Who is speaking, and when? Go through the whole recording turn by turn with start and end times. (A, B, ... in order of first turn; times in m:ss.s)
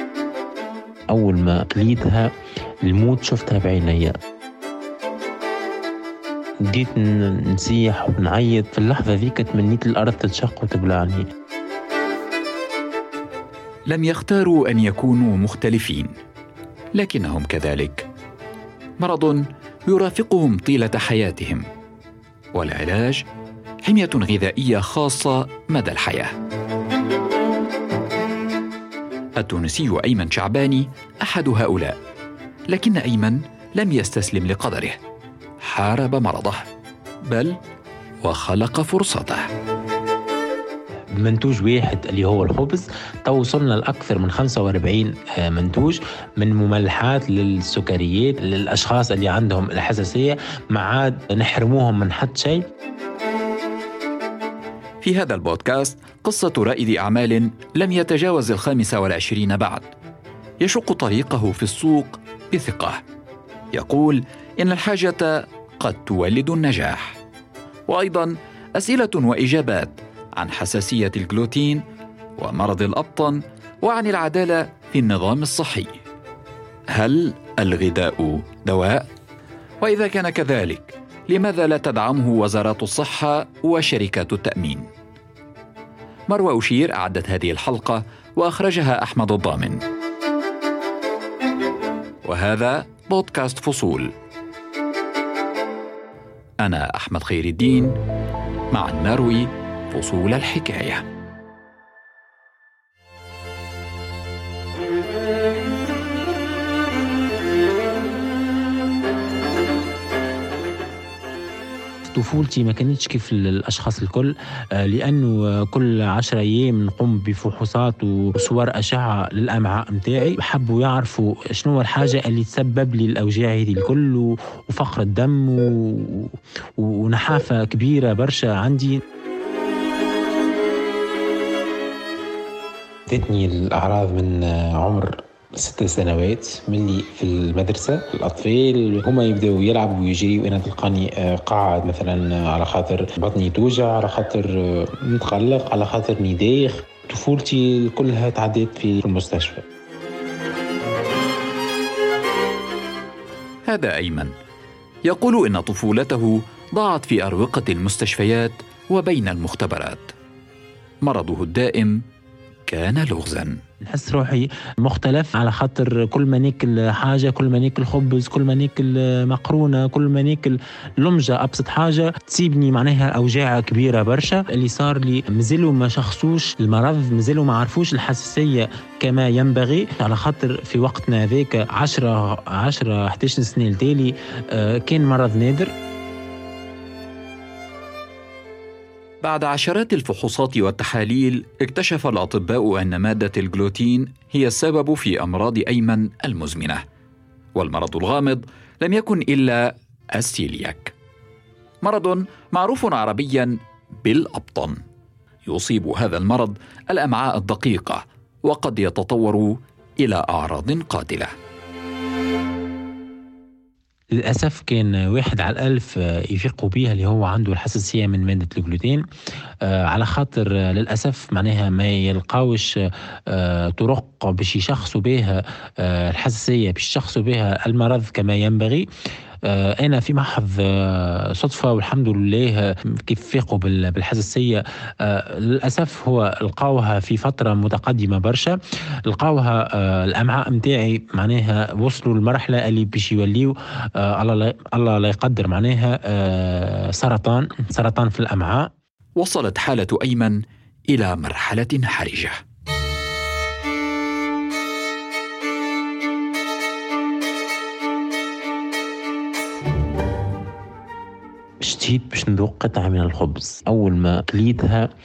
0:01.1-0:02.3 A
0:02.8-0:04.1 A
0:06.7-0:11.3 A
0:13.9-0:16.1 B
0:16.9-0:18.1 B
0:19.0-0:21.6 B
0:22.5-0:23.2 B
0:23.8-0:26.4 B
0:29.4-0:32.0 B
0:32.7-0:35.0 B
0:35.6-0:36.7 B
0:37.2-0:37.6 B
0:38.2-0:39.5 B
0:41.2-0:52.6 A
0:55.0-0:59.9 B
1:00.6-1:03.0 B
1:03.7-1:07.2 B
1:07.9-1:11.8 B
1:12.4-1:15.9 B
1:16.9-1:19.1 B
1:19.8-1:24.9 B
1:26.3-1:29.8 B
1:32.2-1:34.1 B
1:36.6-1:38.0 B
1:38.7-1:41.0 B
1:52.0-2:09.0 A
2:13.1-2:29.6 A
2:33.7-2:34.3 B
2:35.1-2:40.1 B
2:41.0-2:42.0 B
2:42.7-2:43.6 B
2:43.8-3:05.7 A
3:09.2-3:16.8 B
3:17.6-3:20.9 B
3:21.8-3:24.8 B
3:25.4-3:31.3 B
3:34.1-3:39.0 A
3:39.6-3:42.7 A
3:43.3-3:48.9 A
3:49.4-4:08.7 A
4:09.2-4:10.4 B
4:10.9-4:12.4 B
4:21.6-4:24.9 A